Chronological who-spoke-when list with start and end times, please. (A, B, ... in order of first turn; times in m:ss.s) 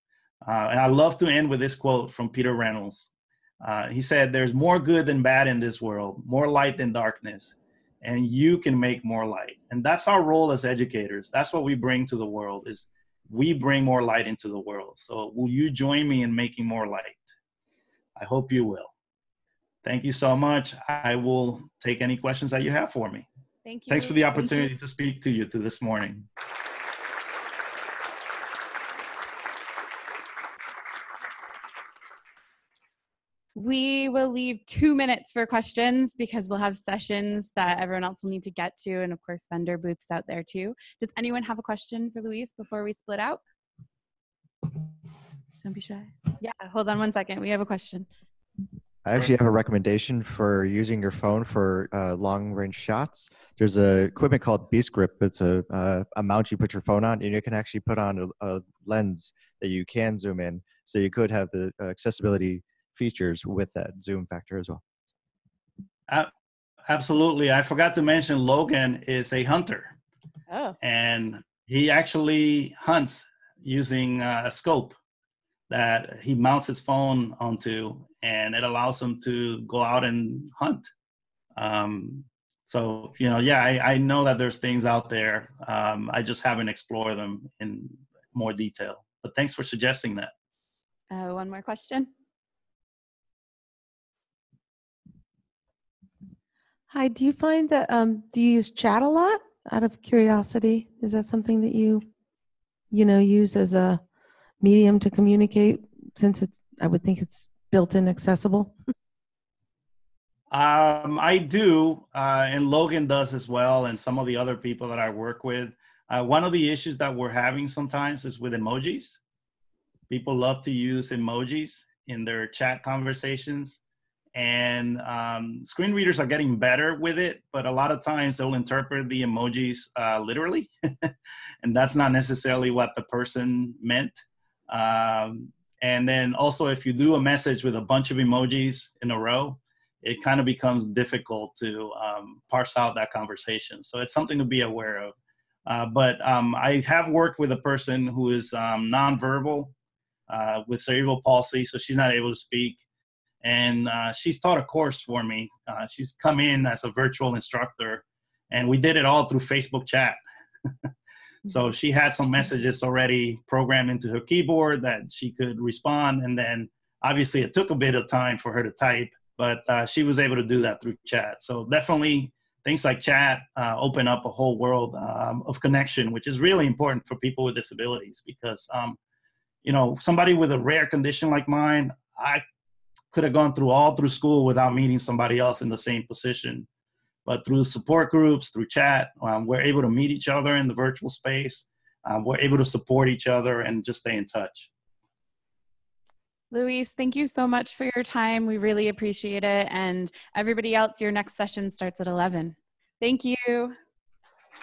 0:00.4-0:03.1 A
0:03.6-0:17.3 A
0:18.2-0:18.9 A
0:19.8-0:23.3 A
0:23.6-0:24.7 B
0:23.9-0:26.3 A
0:33.6-0:43.4 B
0:45.6-0:48.1 B
0:49.0-1:04.8 C
1:06.9-1:10.0 A
1:10.5-1:10.8 B
1:10.8-1:15.0 A
1:15.7-1:20.9 A
1:21.6-1:30.3 A
1:31.1-1:32.1 B
1:36.9-1:42.1 D
1:42.9-1:44.0 D
1:44.6-1:48.8 D
1:50.5-1:59.2 A
2:00.1-2:03.8 A
2:04.4-2:11.1 A
2:11.6-2:25.1 A
2:25.7-2:29.7 A
2:30.3-2:32.8 A
2:33.4-2:40.2 A
2:41.5-2:59.0 A
2:59.6-3:02.4 A
3:03.1-3:06.7 A
3:07.3-3:14.7 A
3:16.5-3:23.8 B